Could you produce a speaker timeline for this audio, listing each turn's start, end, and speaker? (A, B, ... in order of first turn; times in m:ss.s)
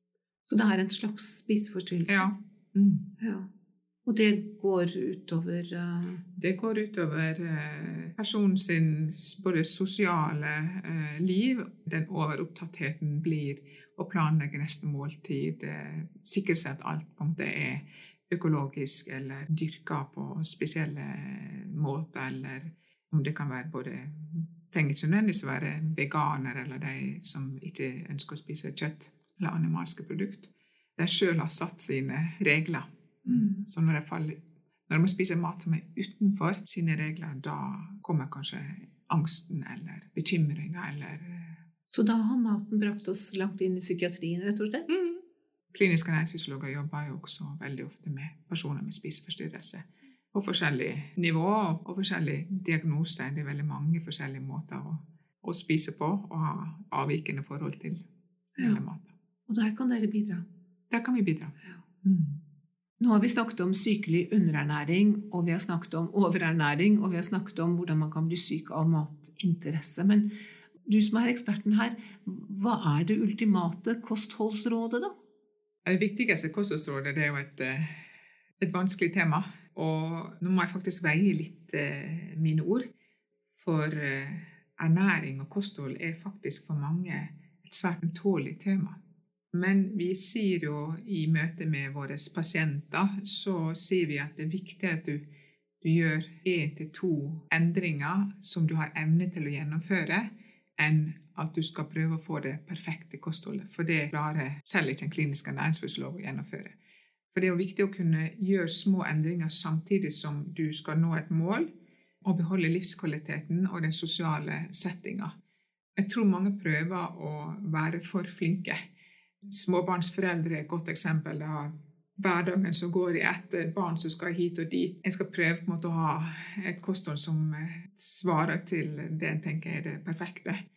0:00.5-0:02.3 A
0:02.1-0:03.1 B
0:03.2-0:03.5 A
0:04.1-0:06.2 A
0:06.4-0:41.6 B
0:41.9-0:44.9 A
0:44.9-0:45.2 B
0:45.7-0:58.0 B
0:58.6-0:58.8 A
0:58.6-0:59.1 B
0:59.5-1:00.4 A
1:00.9-1:02.4 B
1:03.0-1:10.3 A
1:10.9-1:15.1 A
1:15.9-1:17.9 B
1:18.6-1:22.8 B
1:23.6-1:29.0 B
1:29.5-1:35.3 B
1:35.8-1:46.8 B
1:47.3-1:51.7 B
1:52.2-1:55.3 B
1:56.0-1:58.8 B
1:59.4-2:10.6 B